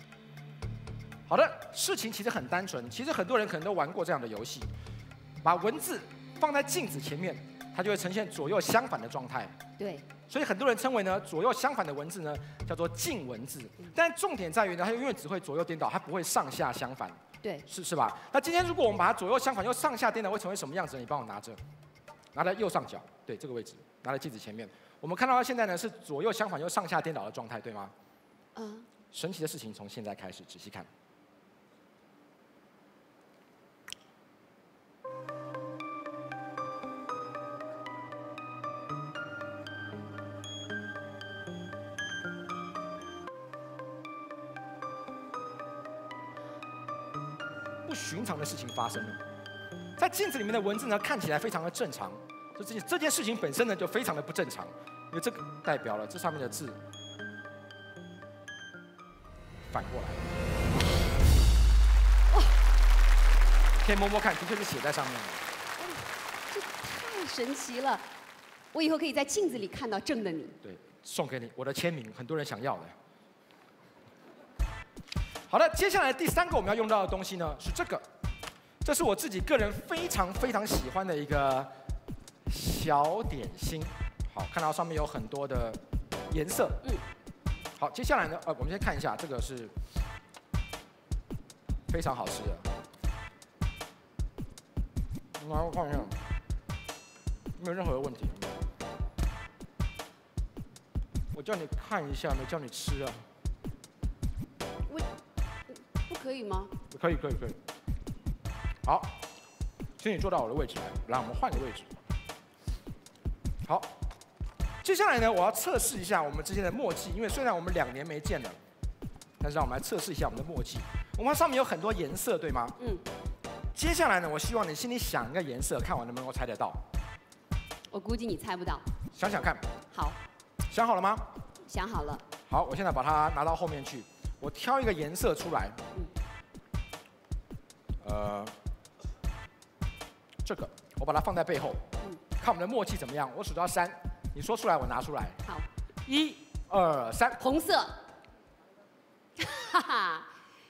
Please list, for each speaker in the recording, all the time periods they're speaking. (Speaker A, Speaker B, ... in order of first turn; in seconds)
Speaker A: 1.3-4.7, 5.4-9.5, 10.2-21.6, 22.3-27.9, 29.1-30.9, 47.9-49.2, 50.0-56.8, 59.7-60.2, 63.8-65.5, 70.6-72.9, 75.5-78.0, 78.8-81.7, 82.5-85.8, 86.3-86.8, 87.8-89.7, 91.9-92.7, 95.3-96.2, 97.6-98.6, 101.3-103.3, 106.9-107.6, 108.8-109.2, 110.0-111.9, 113.6-113.9, 114.8-118.6, 119.4-122.8, 123.7-126.8, 129.1-129.7, 130.7-131.3, 132.4-135.8, 138.0-138.5, 140.4-141.8, 142.4-145.4, 146.1-147.4
Speaker B: 9.8-10.1, 17.4-17.7, 28.5-28.9, 65.8-68.1, 68.7-70.6, 105.7-106.7, 122.8-123.0, 127.9-128.8, 129.9-130.2, 131.7-132.2, 147.4-148.0, 149.4-150.3